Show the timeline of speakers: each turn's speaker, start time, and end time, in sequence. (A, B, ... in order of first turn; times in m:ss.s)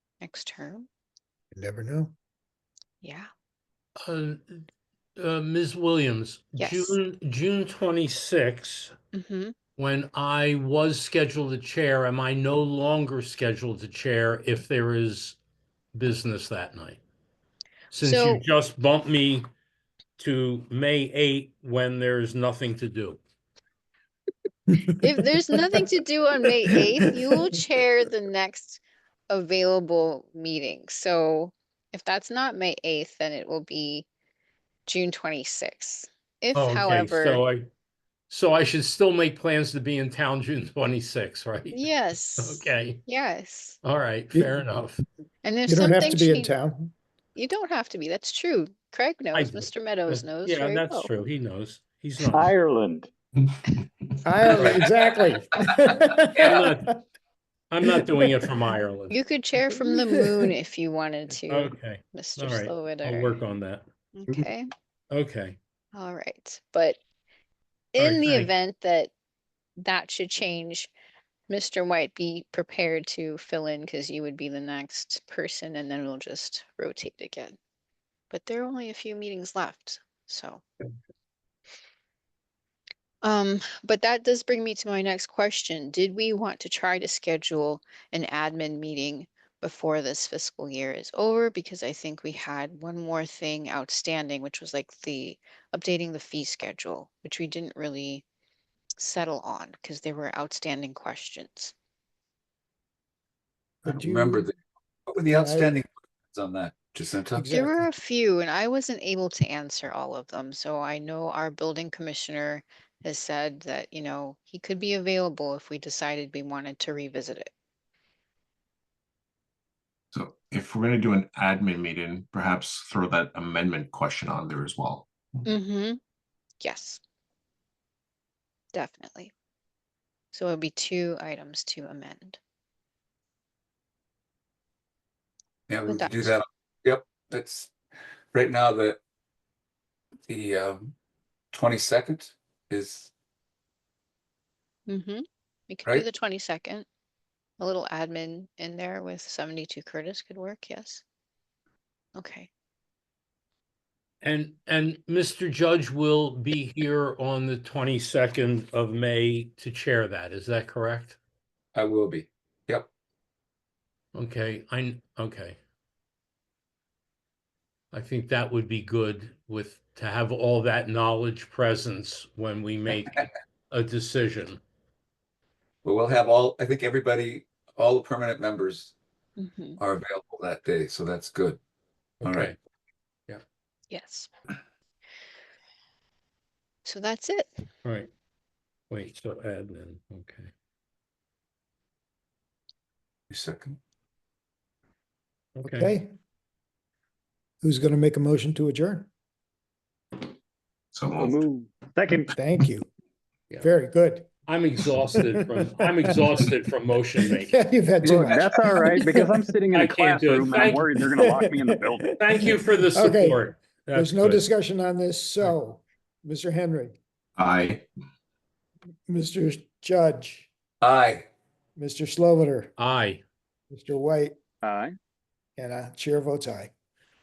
0:00.2-0:00.9 A
0:01.5-0:02.1 B
0:03.0-0:03.3 A
0:04.0-0:04.6 C
0:05.2-0:08.9 C
0:06.6-0:07.0 A
0:09.1-0:09.5 A
0:09.8-0:15.4 C
0:15.9-0:17.0 C
0:17.9-0:19.4 C
0:18.0-0:18.4 A
0:20.2-0:23.2 C
0:24.9-0:34.1 A
0:34.8-0:37.4 A
0:36.5-0:37.7 C
0:38.3-0:41.9 C
0:41.7-0:43.8 A
0:42.4-0:43.0 C
0:43.8-0:45.0 C
0:45.4-0:46.5 A
0:45.6-0:46.9 B
0:47.3-0:50.8 A
0:49.3-0:52.5 C
0:52.2-0:53.1 D
0:54.2-0:56.9 B
0:54.5-0:54.8 C
0:56.4-0:56.6 E
0:56.4-0:56.9 C
0:57.7-0:59.2 C
0:58.1-0:58.5 B
0:59.1-1:03.4 A
0:59.7-1:00.5 B
1:01.5-1:04.4 C
1:04.1-1:04.7 A
1:05.1-1:05.6 C
1:05.9-1:07.0 A
1:07.9-1:09.1 A
1:08.0-1:08.5 C
1:09.8-1:10.9 A
1:11.5-1:17.6 A
1:18.3-1:20.6 A
1:23.2-1:38.2 A
1:39.0-1:41.7 A
1:43.8-1:44.5 B
1:43.8-1:47.4 E
1:45.3-1:45.8 B
1:47.3-1:47.8 B
1:47.5-1:57.5 A
2:00.1-2:05.1 F
2:05.4-2:06.0 A
2:06.6-2:07.0 A
2:08.7-2:09.3 A
2:10.3-2:12.4 A
2:15.7-2:17.7 E
2:15.9-2:16.3 A
2:18.3-2:19.0 E
2:20.3-2:20.9 E
2:21.5-2:23.1 E
2:24.9-2:26.9 A
2:27.6-2:31.0 A
2:32.1-2:32.5 A
2:34.2-2:41.2 C
2:41.7-2:42.9 E
2:44.1-2:45.6 C
2:47.9-2:54.6 C
2:55.8-2:58.9 E
2:59.4-2:59.8 A
2:59.8-3:01.6 E
3:02.2-3:02.6 C
3:02.2-3:02.5 E
3:03.9-3:04.3 A
3:06.8-3:07.5 A
3:08.9-3:10.5 C
3:13.3-3:13.8 E
3:15.6-3:15.9 C
3:15.6-3:16.1 B
3:17.6-3:19.1 B
3:21.0-3:21.4 F
3:21.1-3:22.3 D
3:22.3-3:22.9 B
3:23.6-3:24.3 B
3:24.5-3:27.6 C
3:25.3-3:25.6 B
3:27.4-3:29.5 B
3:28.0-3:32.1 D
3:29.7-3:30.9 C
3:30.7-3:37.0 B
3:32.2-3:34.4 C
3:37.4-3:37.8 F
3:39.1-3:40.5 B
3:40.8-3:41.3 E
3:41.8-3:42.7 B
3:42.8-3:43.2 C
3:43.7-3:44.4 B
3:44.6-3:44.9 D
3:45.6-3:46.7 B